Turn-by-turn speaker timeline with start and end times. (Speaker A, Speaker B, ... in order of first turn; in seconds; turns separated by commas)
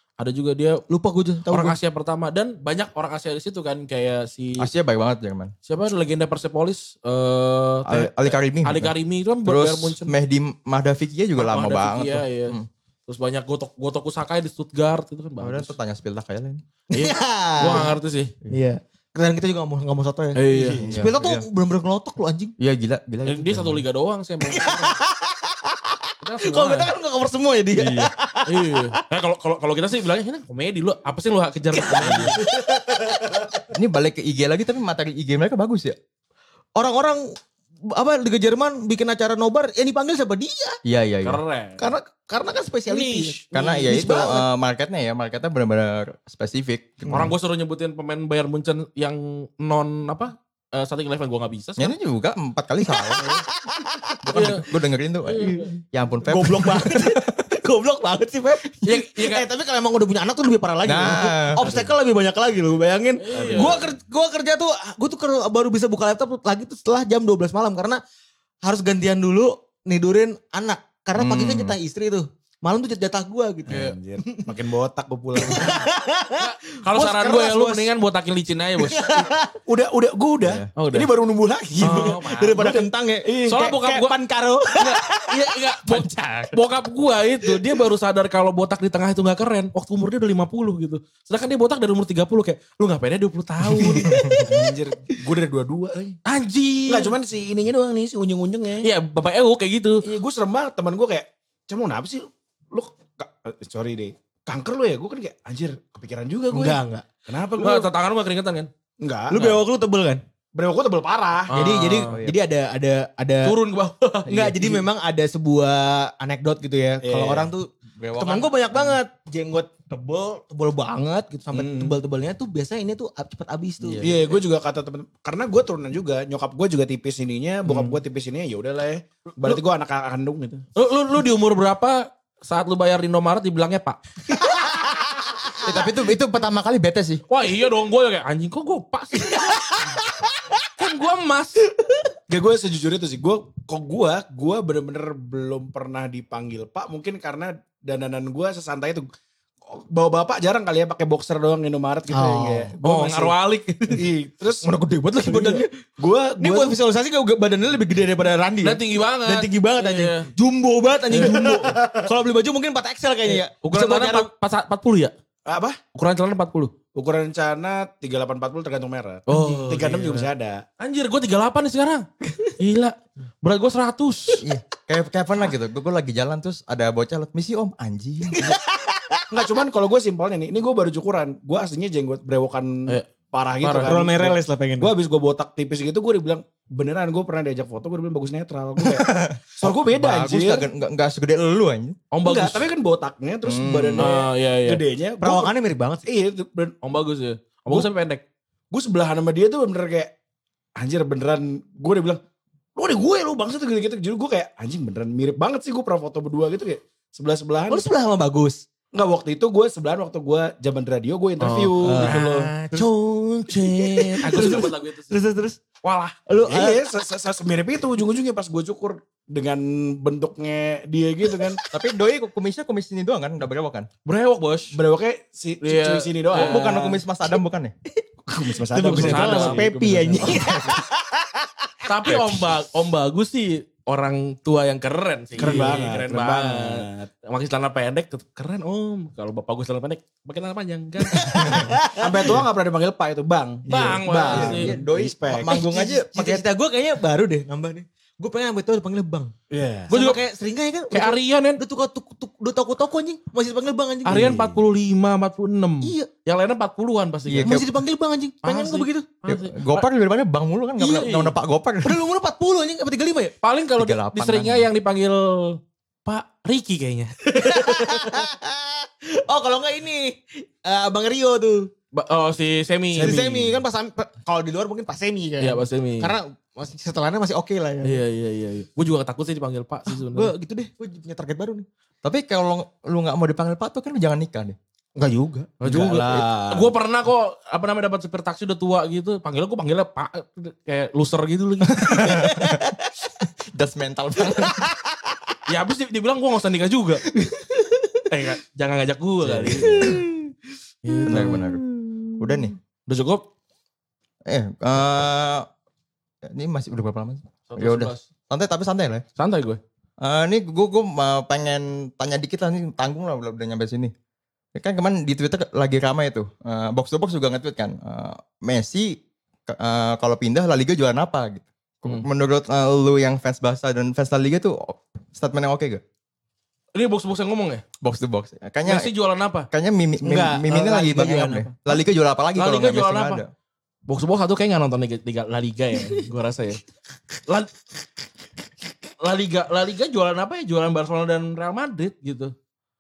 Speaker A: 0.2-0.8, Speaker B: 0.9-1.8, Speaker A: 1.5-4.7, Speaker C: 4.6-5.5, Speaker A: 5.7-10.1, Speaker C: 7.8-8.9, Speaker C: 9.4-12.7, Speaker A: 11.4-15.8, Speaker C: 15.4-16.6, Speaker A: 16.9-18.3, Speaker B: 16.9-17.9, Speaker B: 18.5-22.6, Speaker A: 20.4-20.9, Speaker D: 20.5-21.1, Speaker C: 20.8-21.4, Speaker C: 22.6-23.8, Speaker A: 23.2-25.0, Speaker B: 24.4-29.0, Speaker A: 26.2-26.9, Speaker C: 27.8-28.1, Speaker A: 28.5-32.4, Speaker B: 31.7-33.7, Speaker C: 33.7-36.0, Speaker B: 36.8-37.2, Speaker B: 37.9-40.8, Speaker C: 40.9-41.4, Speaker A: 41.2-41.9, Speaker B: 41.8-44.5, Speaker A: 42.9-44.1, Speaker C: 43.5-47.3, Speaker A: 47.1-52.0, Speaker C: 51.8-53.2, Speaker B: 52.9-54.3, Speaker C: 54.2-57.4, Speaker A: 54.3-54.7, Speaker A: 55.2-55.7, Speaker B: 55.4-55.7, Speaker B: 56.2-68.0, Speaker A: 58.8-59.5, Speaker C: 60.9-61.7, Speaker D: 61.6-61.9, Speaker A: 63.2-63.8, Speaker D: 63.3-63.9, Speaker B: 68.6-74.5, Speaker C: 71.2-71.8, Speaker D: 73.7-75.9, Speaker A: 73.7-74.0, Speaker B: 75.3-77.9, Speaker A: 76.4-79.1, Speaker B: 78.8-79.6, Speaker D: 79.7-83.8, Speaker C: 80.4-80.7, Speaker A: 80.8-81.1, Speaker B: 81.8-86.5, Speaker A: 81.8-82.8, Speaker A: 83.5-84.1, Speaker A: 84.8-94.4, Speaker B: 93.8-94.5, Speaker C: 94.1-94.5, Speaker D: 94.5-96.2, Speaker A: 96.3-97.2, Speaker D: 96.9-98.9, Speaker A: 98.8-100.0, Speaker D: 100.0-107.9, Speaker B: 106.5-107.1, Speaker A: 107.6-108.7, Speaker D: 109.0-109.6, Speaker B: 109.3-110.2, Speaker D: 110.5-111.5, Speaker A: 111.5-112.2, Speaker B: 111.5-113.6, Speaker C: 112.1-112.4, Speaker A: 113.4-114.8, Speaker B: 114.3-124.2, Speaker D: 117.0-117.5, Speaker C: 118.0-119.0, Speaker D: 121.5-122.0, Speaker D: 124.0-130.7, Speaker A: 130.8-134.4, Speaker B: 135.5-135.9, Speaker C: 135.6-137.2, Speaker A: 137.3-139.7, Speaker B: 139.2-140.0, Speaker A: 140.8-141.6, Speaker D: 142.3-149.1, Speaker D: 149.7-153.4, Speaker B: 152.1-152.8, Speaker A: 152.8-154.0, Speaker D: 153.9-156.8, Speaker B: 154.6-155.7, Speaker B: 156.4-164.3, Speaker A: 158.6-160.3, Speaker A: 161.1-161.5, Speaker D: 161.2-162.1, Speaker A: 163.6-165.1, Speaker D: 165.5-165.8, Speaker A: 165.9-166.7, Speaker D: 166.9-170.6, Speaker A: 169.3-170.3, Speaker B: 169.3-169.7, Speaker A: 170.8-172.1, Speaker A: 172.6-174.5, Speaker C: 174.4-178.5, Speaker B: 178.3-179.3, Speaker D: 179.3-190.7, Speaker A: 183.6-183.9, Speaker B: 183.8-184.9, Speaker C: 188.9-192.0, Speaker A: 192.1-192.7, Speaker D: 192.2-195.5, Speaker C: 193.4-194.1, Speaker A: 194.0-194.8, Speaker B: 195.2-196.1, Speaker D: 196.1-196.8, Speaker A: 196.8-198.2, Speaker D: 198.7-200.1, Speaker D: 200.8-202.2, Speaker D: 202.8-207.9, Speaker B: 207.7-208.6, Speaker D: 208.9-212.5, Speaker A: 211.4-215.2, Speaker B: 211.8-212.9, Speaker B: 213.5-215.6, Speaker A: 215.8-216.3, Speaker B: 216.3-216.9, Speaker D: 216.5-221.6, Speaker B: 221.3-221.7, Speaker C: 221.7-223.9, Speaker A: 224.1-224.8, Speaker D: 224.7-226.9, Speaker A: 225.6-227.0, Speaker C: 226.3-227.7, Speaker B: 227.9-231.7, Speaker D: 228.3-230.8, Speaker A: 228.9-229.7, Speaker A: 231.8-241.7, Speaker D: 235.4-237.1, Speaker B: 235.4-235.8, Speaker B: 241.1-242.4, Speaker D: 242.0-245.6, Speaker A: 243.7-244.8, Speaker C: 244.3-246.4, Speaker B: 245.4-249.3, Speaker D: 249.5-250.0, Speaker B: 249.9-254.4, Speaker A: 249.9-250.2, Speaker A: 250.9-251.6, Speaker A: 254.1-257.6, Speaker B: 255.8-256.1, Speaker C: 257.3-257.8, Speaker B: 257.4-259.1, Speaker A: 258.4-259.9, Speaker C: 259.3-262.0, Speaker B: 260.8-261.1, Speaker A: 260.9-261.3, Speaker B: 261.8-263.4, Speaker A: 263.4-268.0, Speaker C: 263.8-264.7, Speaker B: 267.3-271.7, Speaker A: 271.9-273.5, Speaker D: 272.9-273.4, Speaker B: 273.0-278.0, Speaker A: 275.4-276.1, Speaker A: 277.8-280.3, Speaker B: 279.9-281.6, Speaker C: 282.0-284.6, Speaker B: 285.0-285.6, Speaker A: 285.6-292.2, Speaker D: 285.6-286.7, Speaker C: 291.7-292.7, Speaker B: 292.0-292.9, Speaker C: 293.5-294.7, Speaker B: 294.4-295.1, Speaker A: 295.5-297.0, Speaker B: 297.1-298.1, Speaker A: 298.1-300.0, Speaker C: 299.3-300.1, Speaker B: 299.7-300.3, Speaker A: 300.9-301.4, Speaker B: 300.9-302.4, Speaker C: 301.1-301.7, Speaker C: 302.2-302.6, Speaker A: 302.9-303.2, Speaker C: 304.3-305.5, Speaker C: 306.3-309.0, Speaker A: 307.5-308.0, Speaker A: 309.2-309.6, Speaker C: 310.0-313.9, Speaker C: 314.6-319.0, Speaker C: 319.5-325.8, Speaker A: 326.8-327.6, Speaker C: 327.8-328.9, Speaker A: 328.6-329.5, Speaker C: 329.5-333.3, Speaker B: 330.0-331.8, Speaker A: 332.4-333.2, Speaker A: 333.9-336.6, Speaker A: 337.3-337.5, Speaker A: 339.0-342.3